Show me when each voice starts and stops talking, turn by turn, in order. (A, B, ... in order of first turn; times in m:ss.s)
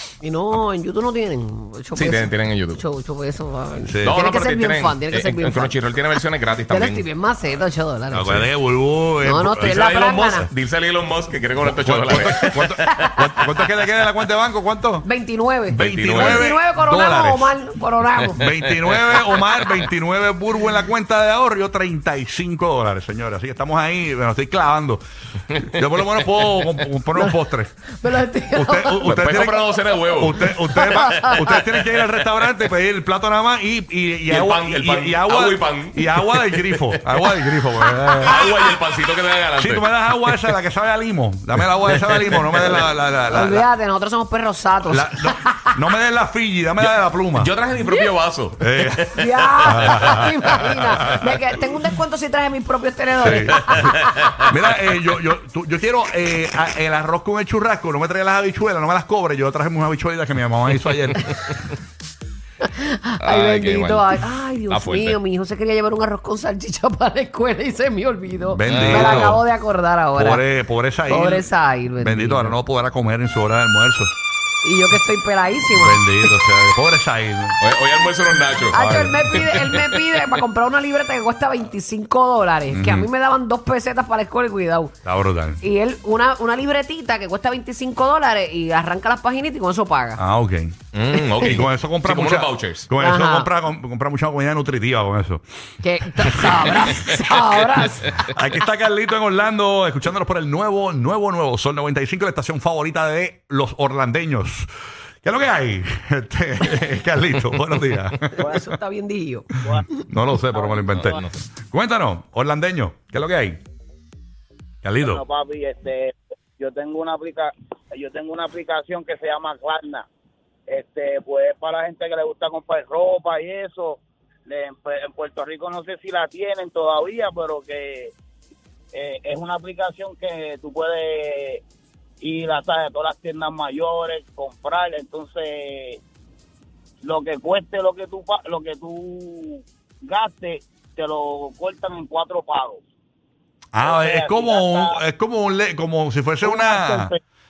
0:00.2-0:05.8 A
0:01.9-0:02.8 B
0:03.8-0:04.2 C
0:04.0-0:07.0 B
0:06.7-0:08.4 A
0:08.1-0:08.4 B
0:08.1-0:09.8 C
0:09.2-0:10.5 A
0:09.5-0:13.1 B
0:11.6-0:15.0 C
0:12.4-0:13.4 A
0:15.0-0:18.5 A
0:15.7-0:16.5 B
0:15.7-0:17.6 C
0:18.3-0:25.0 C
0:19.0-0:19.7 B
0:25.6-0:27.8 C
0:27.1-0:27.4 A
0:28.0-0:29.5 A
0:28.5-0:38.4 C
0:29.0-0:32.0 B
0:30.2-0:31.4 A
0:34.2-0:40.4 B
0:39.6-0:43.7 C
0:41.9-0:42.9 B
0:43.3-0:45.7 A
0:44.9-0:47.5 C
0:46.8-0:50.5 B
0:48.6-0:51.3 C
0:49.1-0:53.8 A
0:53.2-1:01.4 C
0:53.7-0:54.3 B
1:02.6-1:10.4 A
1:03.2-1:05.2 B
1:08.5-1:09.4 C
1:08.6-1:09.4 B
1:10.2-1:14.1 C
1:11.0-1:12.6 A
1:14.6-1:16.2 A
1:15.7-1:17.6 C
1:17.6-1:19.9 B
1:18.7-1:25.0 A
1:18.8-1:19.6 C
1:22.7-1:23.1 C
1:25.0-1:25.6 C
1:25.6-1:30.2 A
1:30.2-1:30.7 C
1:30.9-1:32.9 B
1:31.4-1:35.4 C
1:33.0-1:33.5 A
1:35.8-1:38.3 A
1:36.2-1:37.2 C
1:38.2-1:44.7 C
1:45.2-1:48.8 C
1:48.4-1:50.0 A
1:49.8-1:53.6 C
1:50.5-1:50.9 D
1:50.9-1:51.4 B
1:54.8-1:55.2 C
1:55.0-2:00.0 D
2:00.7-2:08.1 D
2:08.9-2:11.6 D
2:12.2-2:16.0 D
2:17.0-2:22.8 D
2:23.7-2:27.1 C
2:23.8-2:25.0 D
2:26.4-2:27.2 D